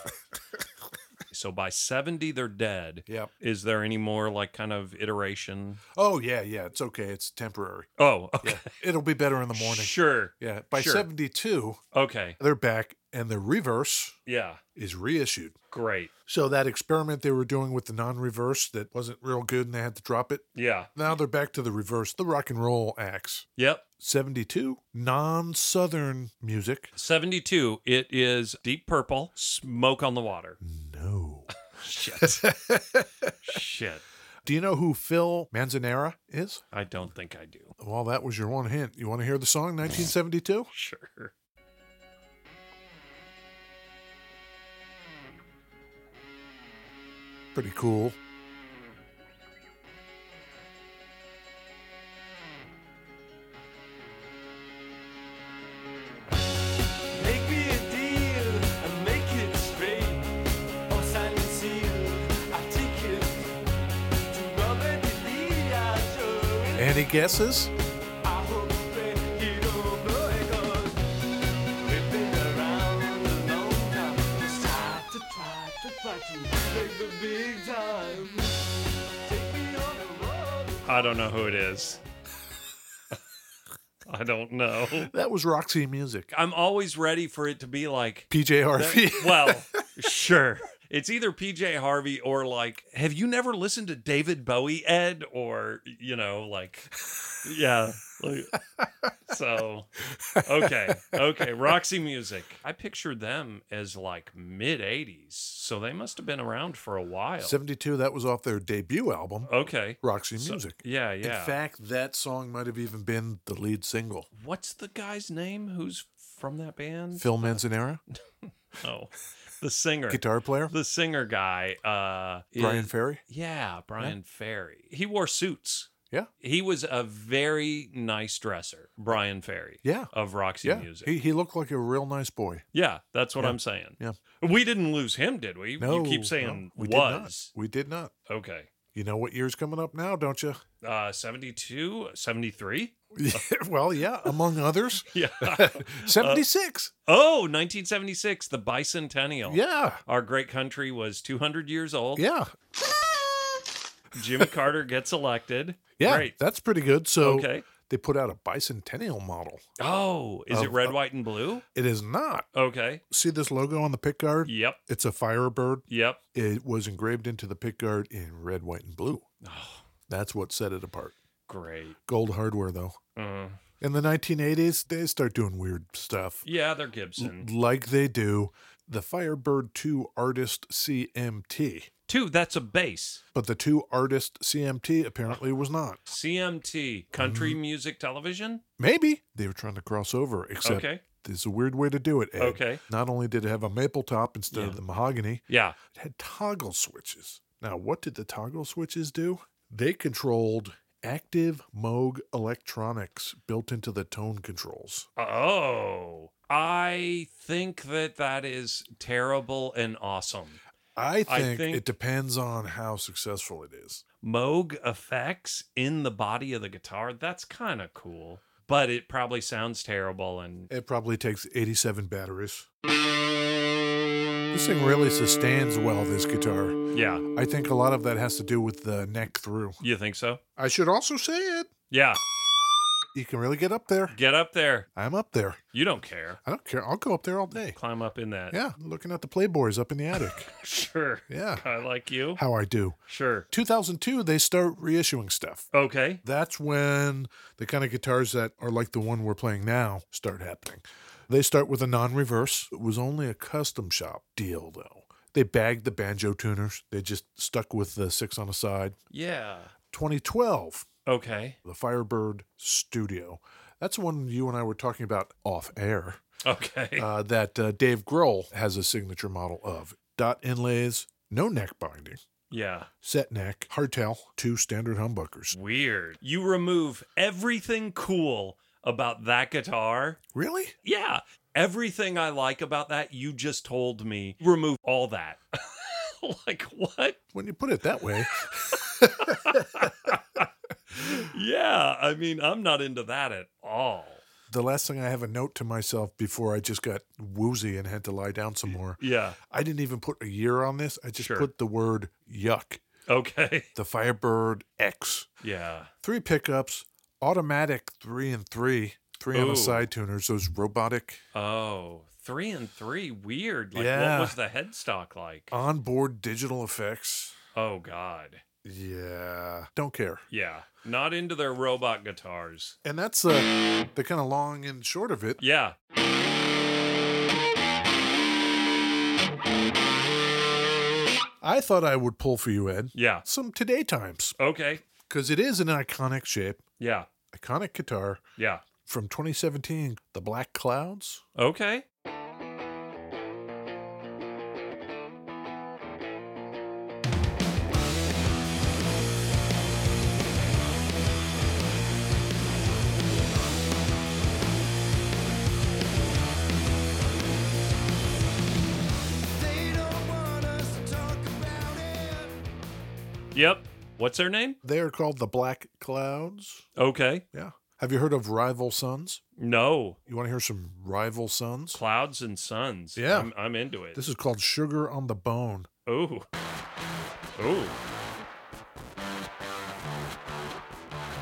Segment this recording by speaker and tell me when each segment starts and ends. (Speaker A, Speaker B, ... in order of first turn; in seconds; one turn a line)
Speaker A: 1.3-5.8
Speaker B: 6.0-7.9
Speaker A: 8.0-8.7
Speaker B: 8.4-11.8
Speaker A: 9.5-11.1
Speaker A: 11.9-12.4
Speaker B: 12.4-14.2
Speaker A: 14.2-14.6
Speaker B: 14.7-15.5
Speaker A: 15.7-16.1
Speaker B: 16.3-23.4
Speaker A: 20.5-20.9
Speaker A: 23.6-23.8
Speaker B: 24.0-26.9
Speaker A: 26.9-30.6
Speaker B: 30.6-31.5
Speaker A: 31.7-32.5
Speaker B: 32.1-33.4
Speaker A: 33.4-34.0
Speaker B: 34.5-36.6
Speaker A: 36.7-37.7
Speaker B: 37.8-40.7
Speaker A: 40.7-41.3
Speaker B: 47.5-48.1
Speaker C: 57.1-60.3
Speaker C: 60.9-63.5
Speaker C: 64.3-67.0
Speaker B: 66.8-67.7
Speaker C: 68.2-71.1
Speaker C: 71.8-78.7
Speaker C: 79.2-81.2
Speaker A: 80.8-82.0
Speaker A: 84.0-85.1
Speaker B: 85.0-86.3
Speaker A: 86.3-96.9
Speaker B: 88.3-89.8
Speaker A: 97.4-98.5
Speaker A: 99.3-99.9
Speaker B: 100.1-101.2
Speaker A: 100.4-107.6
Speaker B: 107.4-109.5
Speaker A: 109.4-111.5
Speaker B: 110.0-114.3
Speaker A: 114.3-117.6
Speaker B: 117.1-118.0
Speaker A: 118.1-131.1
Speaker B: 120.1-120.7
Speaker B: 122.6-123.2
Speaker B: 129.8-130.1
Speaker B: 130.6-132.6
Speaker A: 132.7-137.5
Speaker B: 133.4-134.2
Speaker B: 135.8-138.1
Speaker A: 138.3-138.7
Speaker B: 138.9-140.6
Speaker A: 140.8-143.4
Speaker B: 143.1-146.9
Speaker A: 145.1-146.4
Speaker A: 147.1-152.2
Speaker B: 149.4-150.0
Speaker B: 152.2-152.5
Speaker A: 154.1-156.3
Speaker B: 156.0-159.6
Speaker A: 157.2-157.7
Speaker A: 159.8-161.6
Speaker B: 160.5-160.9
Speaker B: 161.7-162.5
Speaker A: 162.5-163.0
Speaker B: 163.1-169.2
Speaker A: 164.4-164.8
Speaker A: 165.9-166.2
Speaker A: 169.4-169.8
Speaker B: 170.1-171.1
Speaker A: 171.5-172.0
Speaker B: 172.1-173.0
Speaker A: 173.1-173.6
Speaker B: 173.8-176.4
Speaker A: 176.4-177.5
Speaker B: 177.2-181.9
Speaker A: 182.1-183.2
Speaker B: 183.3-186.0
Speaker A: 186.1-188.6
Speaker B: 187.2-187.6
Speaker B: 188.8-205.1
Speaker A: 190.6-191.0
Speaker A: 192.4-192.8
Speaker A: 194.5-194.8
Speaker A: 195.5-195.8
Speaker A: 205.2-210.6
Speaker B: 210.9-214.0
Speaker A: 211.3-211.8
Speaker A: 214.2-220.7
Speaker B: 220.7-222.7
Speaker B: 224.5-229.8
Speaker A: 226.9-227.2
Speaker A: 229.8-230.4
Speaker B: 230.6-231.7
Speaker A: 231.9-232.2
Speaker B: 233.1-234.2
Speaker A: 234.1-234.9
Speaker B: 234.9-235.6
Speaker A: 235.7-236.4
Speaker B: 236.4-237.8
Speaker A: 237.7-238.6
Speaker B: 238.5-240.5
Speaker A: 240.2-242.4
Speaker B: 241.3-241.6
Speaker B: 242.3-243.0
Speaker A: 243.1-243.5
Speaker B: 243.5-245.7
Speaker A: 245.7-246.2
Speaker B: 246.2-259.0
Speaker A: 259.1-259.7
Speaker B: 259.9-260.9
Speaker A: 261.1-261.6
Speaker B: 261.6-266.2
Speaker A: 266.4-267.1
Speaker B: 266.9-272.2
Speaker A: 272.5-272.9
Speaker B: 273.0-275.6
Speaker A: 275.5-280.2
Speaker B: 280.3-280.7
Speaker A: 280.8-287.2
Speaker B: 287.3-290.2
Speaker A: 288.4-294.2
Speaker B: 294.5-302.8
Speaker A: 299.0-299.4
Speaker A: 301.2-301.5
Speaker A: 303.1-303.7
Speaker B: 303.7-305.3
Speaker A: 305.4-305.9
Speaker B: 306.0-311.2
Speaker A: 309.3-309.9
Speaker A: 311.3-315.5
Speaker B: 313.7-314.4
Speaker B: 315.5-317.3
Speaker A: 317.5-318.4
Speaker B: 318.6-320.2
Speaker A: 320.3-322.8
Speaker B: 322.8-325.4
Speaker A: 325.4-325.8
Speaker B: 331.4-334.4
Speaker A: 332.9-333.2
Speaker A: 334.4-334.8
Speaker B: 335.0-336.6
Speaker A: 336.8-337.1
Speaker B: 337.3-338.2
Speaker A: 338.4-338.6
Speaker B: 338.8-341.2
Speaker A: 341.4-341.8
Speaker C: 359.3-362.4
Speaker A: 363.3-364.6
Speaker B: 364.6-366.6
Speaker A: 366.8-367.2
Speaker B: 367.3-369.2
Speaker A: 369.4-370.0
Speaker B: 370.1-371.8
Speaker A: 371.7-374.0
Speaker B: 372.9-373.3
Speaker B: 373.9-375.7
Speaker A: 375.9-376.3
Speaker A: 377.4-377.7